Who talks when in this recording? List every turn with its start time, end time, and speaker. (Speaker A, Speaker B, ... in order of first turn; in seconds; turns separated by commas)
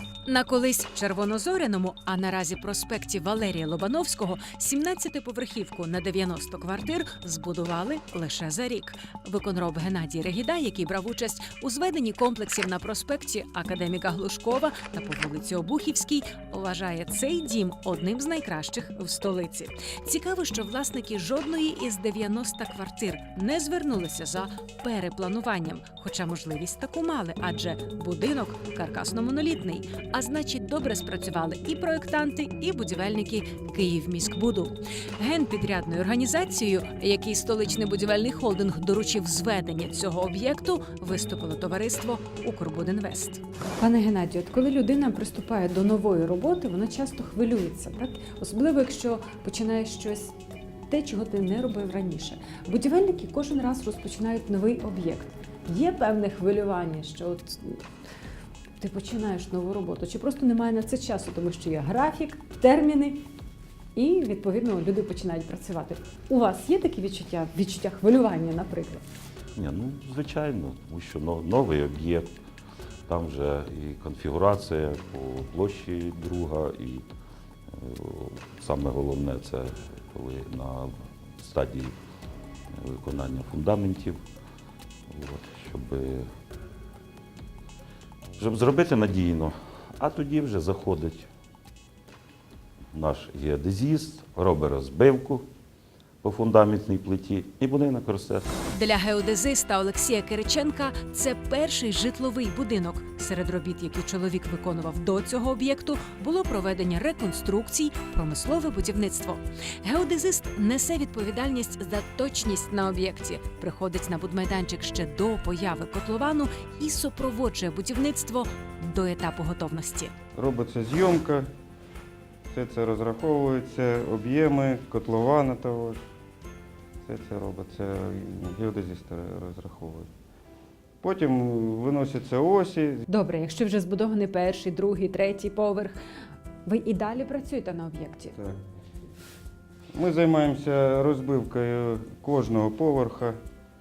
Speaker A: 0.2-50.3, Speaker A: 50.9-57.8, Speaker A: 58.8-63.2, Speaker A: 63.9-69.0, Speaker B: 69.5-72.3, Speaker B: 73.1-77.0, Speaker B: 77.7-82.0, Speaker B: 82.7-84.2, Speaker B: 85.1-86.2, Speaker B: 88.4-91.3, Speaker B: 92.9-95.4, Speaker B: 96.2-98.5, Speaker A: 98.7-120.1, Speaker C: 120.3-121.5, Speaker C: 122.5-126.0, Speaker C: 127.0-130.1, Speaker C: 131.0-133.0, Speaker A: 133.1-136.0, Speaker A: 136.6-138.3, Speaker C: 139.9-143.3